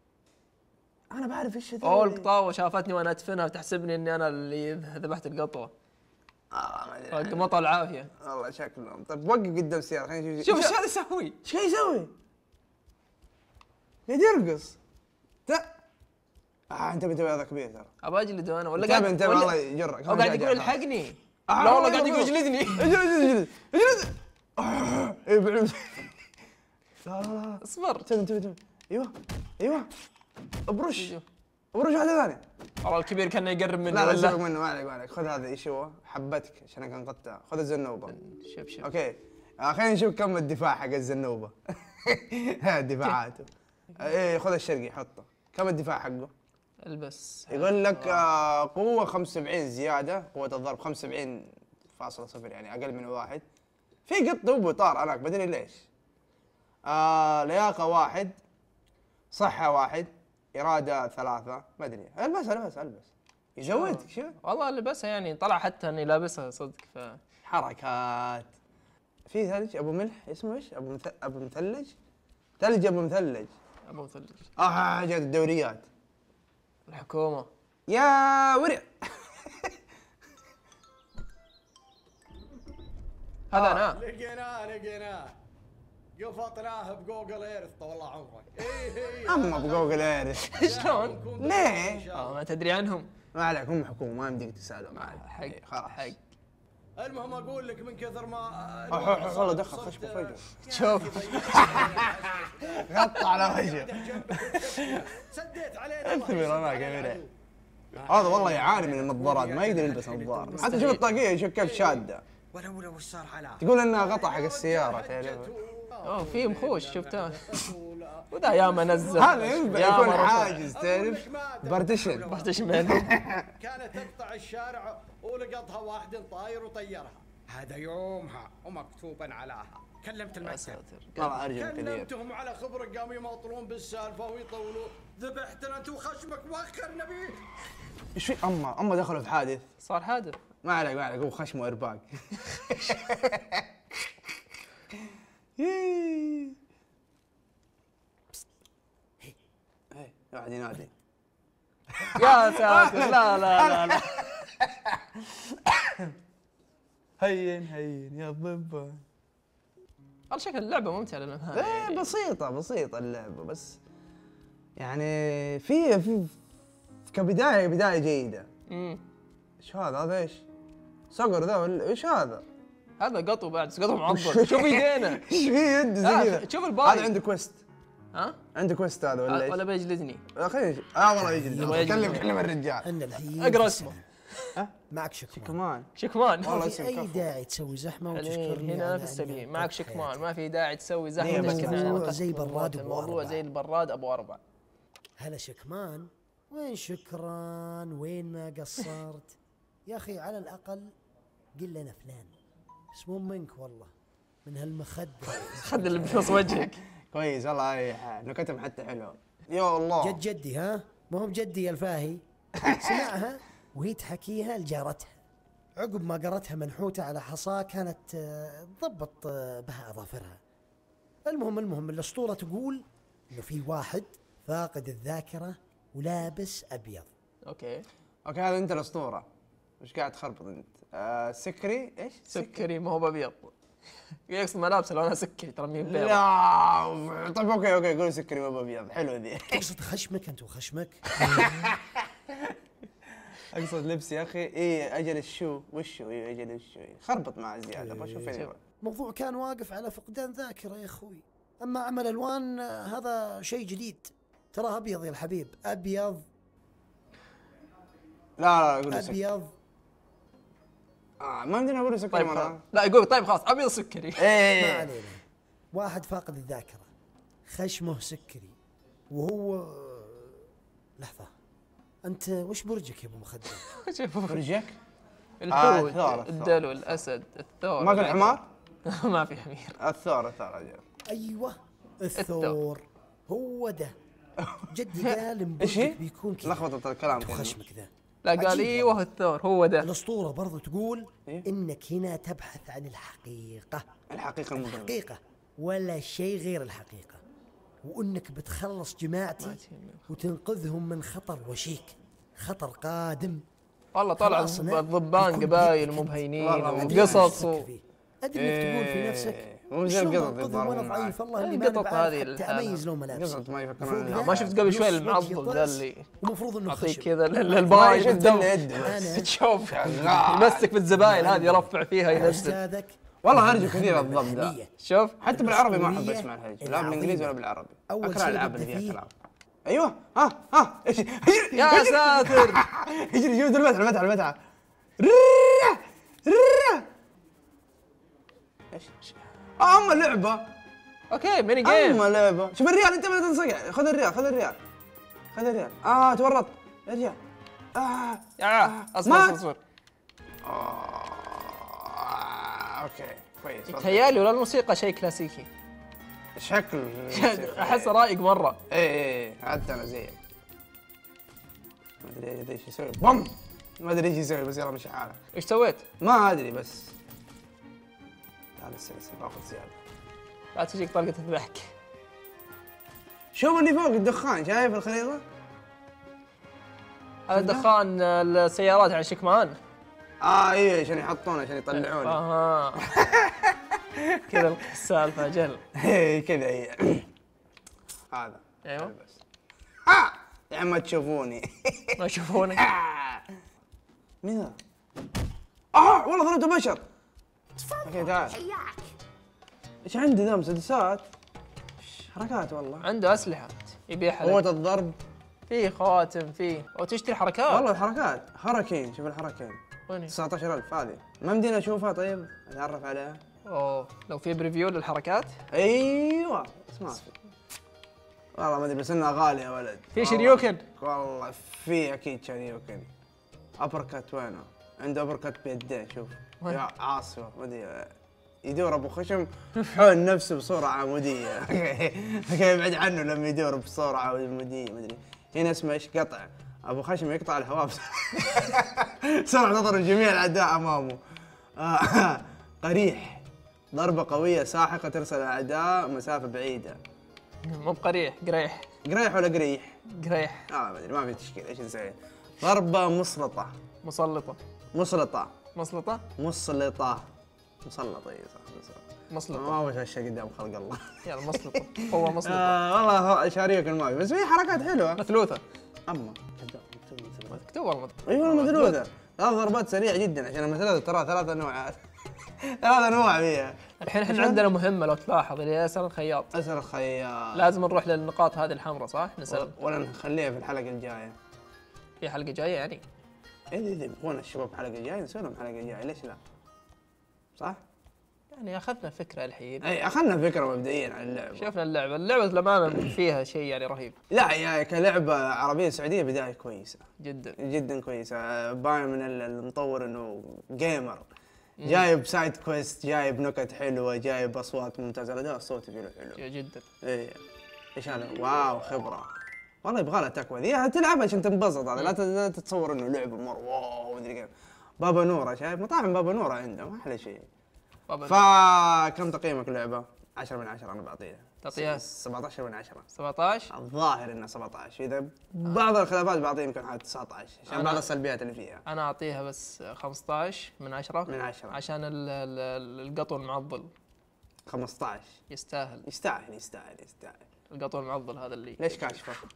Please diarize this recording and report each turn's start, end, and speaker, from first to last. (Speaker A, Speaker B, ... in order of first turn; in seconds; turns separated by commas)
Speaker A: 1.1-2.3, Speaker B: 1.8-5.7, Speaker A: 6.5-7.6, Speaker B: 7.1-8.1, Speaker A: 8.2-10.8, Speaker B: 10.4-11.4, Speaker A: 11.4-12.1, Speaker A: 14.1-14.8, Speaker A: 16.7-17.9, Speaker B: 18.0-23.3, Speaker A: 18.8-20.8, Speaker A: 21.5-26.2, Speaker A: 27.0-29.9, Speaker B: 27.6-28.1, Speaker A: 30.7-31.1, Speaker B: 30.9-31.2, Speaker A: 31.7-32.4, Speaker B: 32.8-34.4, Speaker A: 33.9-38.1, Speaker B: 38.1-38.9, Speaker A: 38.8-46.3, Speaker B: 46.8-48.2, Speaker A: 47.5-53.4, Speaker A: 54.1-55.8, Speaker A: 56.9-58.4, Speaker A: 59.3-64.3, Speaker B: 63.7-67.2, Speaker A: 67.4-68.5, Speaker A: 69.3-71.9, Speaker A: 72.6-73.5, Speaker B: 73.9-74.5, Speaker A: 74.6-75.9, Speaker B: 76.9-77.5, Speaker A: 77.9-79.7, Speaker B: 83.5-84.0, Speaker A: 83.5-83.8, Speaker C: 83.9-85.3, Speaker C: 86.2-92.4, Speaker A: 89.2-90.7, Speaker B: 90.4-91.2, Speaker A: 91.3-92.1, Speaker B: 92.1-93.1, Speaker A: 93.3-96.1, Speaker B: 95.0-96.2, Speaker C: 97.0-107.3, Speaker A: 98.9-100.4, Speaker B: 100.7-101.6, Speaker A: 101.3-105.1, Speaker A: 106.0-107.2, Speaker C: 107.9-110.9, Speaker A: 108.1-112.2, Speaker B: 110.5-111.0, Speaker C: 111.6-122.6, Speaker A: 113.6-115.5, Speaker B: 116.0-117.6, Speaker B: 118.3-120.7, Speaker A: 119.1-123.5, Speaker B: 122.1-123.2, Speaker C: 123.6-130.8, Speaker B: 130.4-131.5, Speaker A: 131.2-132.1, Speaker C: 131.5-137.4, Speaker A: 138.2-139.6, Speaker B: 139.8-140.4, Speaker A: 140.6-143.6, Speaker A: 145.6-146.6, Speaker A: 149.9-150.9, Speaker A: 151.9-156.1, Speaker B: 152.1-154.1, Speaker A: 157.2-159.0, Speaker B: 160.3-162.1, Speaker A: 161.5-163.8, Speaker A: 164.8-166.3, Speaker A: 167.1-168.5, Speaker B: 168.7-169.0, Speaker A: 169.6-170.4, Speaker A: 171.1-172.4, Speaker B: 173.0-175.3, Speaker A: 174.1-177.6, Speaker B: 176.0-177.1, Speaker B: 178.1-178.4, Speaker A: 178.6-179.6, Speaker B: 179.3-180.2, Speaker A: 180.3-182.9, Speaker D: 181.2-182.3, Speaker B: 181.6-182.3, Speaker D: 182.8-184.0, Speaker B: 183.3-184.5, Speaker D: 184.9-185.6, Speaker A: 185.3-185.9, Speaker B: 185.9-186.6, Speaker A: 186.4-187.3, Speaker D: 186.4-190.2, Speaker B: 188.1-194.4, Speaker A: 191.2-192.2, Speaker D: 191.2-193.4, Speaker D: 195.2-199.3, Speaker D: 199.9-200.9, Speaker D: 201.6-202.3, Speaker D: 202.9-203.9, Speaker D: 204.4-206.3, Speaker B: 205.5-206.8, Speaker A: 206.2-210.2, Speaker D: 210.0-215.2, Speaker D: 215.8-220.4, Speaker D: 221.2-227.1, Speaker B: 227.4-227.8, Speaker A: 228.2-229.3, Speaker A: 229.8-232.6, Speaker B: 232.3-233.5, Speaker B: 234.3-236.2, Speaker A: 235.8-239.6, Speaker D: 239.5-241.2, Speaker A: 241.1-242.5, Speaker A: 243.5-248.6, Speaker D: 247.7-256.2, Speaker A: 258.4-259.2, Speaker D: 258.9-259.5, Speaker A: 261.2-262.6, Speaker B: 262.1-264.3, Speaker A: 264.2-264.9, Speaker D: 264.6-265.2, Speaker D: 265.7-266.9, Speaker D: 267.5-268.6, Speaker D: 269.1-270.4, Speaker D: 271.0-271.3, Speaker D: 272.1-273.6, Speaker B: 273.7-274.4, Speaker A: 274.3-274.8, Speaker B: 275.4-279.8, Speaker A: 275.5-276.7, Speaker A: 277.8-278.4, Speaker A: 279.8-280.8, Speaker D: 281.1-283.9, Speaker B: 282.2-282.6, Speaker A: 284.4-284.7, Speaker D: 284.7-289.0, Speaker A: 285.6-287.6, Speaker B: 288.2-289.9, Speaker D: 289.8-293.8, Speaker A: 294.1-295.0, Speaker D: 294.6-297.2, Speaker D: 297.9-303.4, Speaker B: 299.4-300.0, Speaker B: 303.9-307.7, Speaker D: 304.2-319.3, Speaker A: 306.4-307.4, Speaker A: 308.3-311.2, Speaker B: 311.4-312.8, Speaker A: 313.1-314.6, Speaker B: 314.1-316.1, Speaker B: 316.7-322.6, Speaker A: 317.7-320.8, Speaker D: 320.9-324.7, Speaker A: 323.2-324.6, Speaker B: 324.8-325.2, Speaker A: 325.2-329.1, Speaker D: 325.3-327.4, Speaker D: 327.9-329.0, Speaker A: 329.7-334.4, Speaker B: 331.5-332.6, Speaker A: 335.0-336.9, Speaker A: 338.7-340.5, Speaker B: 341.1-342.0, Speaker A: 341.6-344.6, Speaker A: 345.3-347.2, Speaker A: 347.7-349.4, Speaker B: 348.4-349.6, Speaker A: 350.4-354.2, Speaker B: 353.7-355.5, Speaker A: 356.4-357.9, Speaker B: 357.1-358.6, Speaker A: 358.7-360.2, Speaker A: 362.0-365.2, Speaker B: 365.3-365.8, Speaker A: 366.0-366.9, Speaker A: 368.6-369.8, Speaker B: 370.5-371.7, Speaker A: 373.3-375.2, Speaker B: 377.3-379.6, Speaker A: 377.3-377.7, Speaker A: 380.2-382.2, Speaker B: 381.7-382.9, Speaker A: 382.8-384.3, Speaker B: 384.2-385.6, Speaker A: 385.7-387.1, Speaker A: 388.1-389.2, Speaker B: 388.6-388.9, Speaker A: 389.9-393.3, Speaker B: 391.9-392.7, Speaker A: 394.2-394.6, Speaker A: 395.7-396.8, Speaker A: 397.8-398.4, Speaker D: 397.8-398.8, Speaker A: 399.8-401.1, Speaker A: 402.1-402.9, Speaker B: 402.8-404.4, Speaker A: 404.2-405.0, Speaker B: 405.5-407.7, Speaker A: 407.5-413.2, Speaker B: 409.9-410.1, Speaker B: 413.4-415.3, Speaker A: 415.5-417.1, Speaker A: 418.3-422.9, Speaker B: 419.9-420.6, Speaker A: 423.6-427.9, Speaker A: 428.4-441.0, Speaker A: 441.6-446.8, Speaker B: 447.4-448.7, Speaker A: 448.9-449.8, Speaker B: 449.9-450.5, Speaker A: 450.5-453.5, Speaker B: 453.8-454.4, Speaker A: 454.7-455.3, Speaker B: 455.6-456.0, Speaker A: 456.2-457.1, Speaker A: 457.6-465.0, Speaker B: 459.1-459.6, Speaker B: 461.1-462.6, Speaker B: 465.0-465.4, Speaker A: 465.9-467.4, Speaker B: 467.3-468.8, Speaker A: 468.1-471.8, Speaker A: 472.6-474.5, Speaker B: 473.8-476.3, Speaker A: 476.3-477.5, Speaker B: 477.3-479.5, Speaker A: 479.3-481.2, Speaker B: 482.0-482.8, Speaker A: 483.5-486.2, Speaker B: 488.3-489.7, Speaker A: 489.6-491.5, Speaker B: 491.3-494.0, Speaker A: 494.1-496.9, Speaker B: 497.0-497.4, Speaker A: 497.4-501.1, Speaker B: 501.6-501.9, Speaker A: 501.6-506.2, Speaker B: 506.2-506.7, Speaker A: 506.8-507.2, Speaker A: 507.8-509.1, Speaker A: 509.6-517.2, Speaker B: 517.9-518.2, Speaker A: 518.1-522.9, Speaker B: 521.4-521.8, Speaker B: 522.9-523.5, Speaker A: 523.5-528.6, Speaker B: 527.5-527.9, Speaker B: 528.6-533.7, Speaker A: 531.1-531.6, Speaker A: 534.5-535.2, Speaker B: 535.3-535.8, Speaker A: 535.9-537.2, Speaker B: 537.5-539.0, Speaker A: 538.6-539.2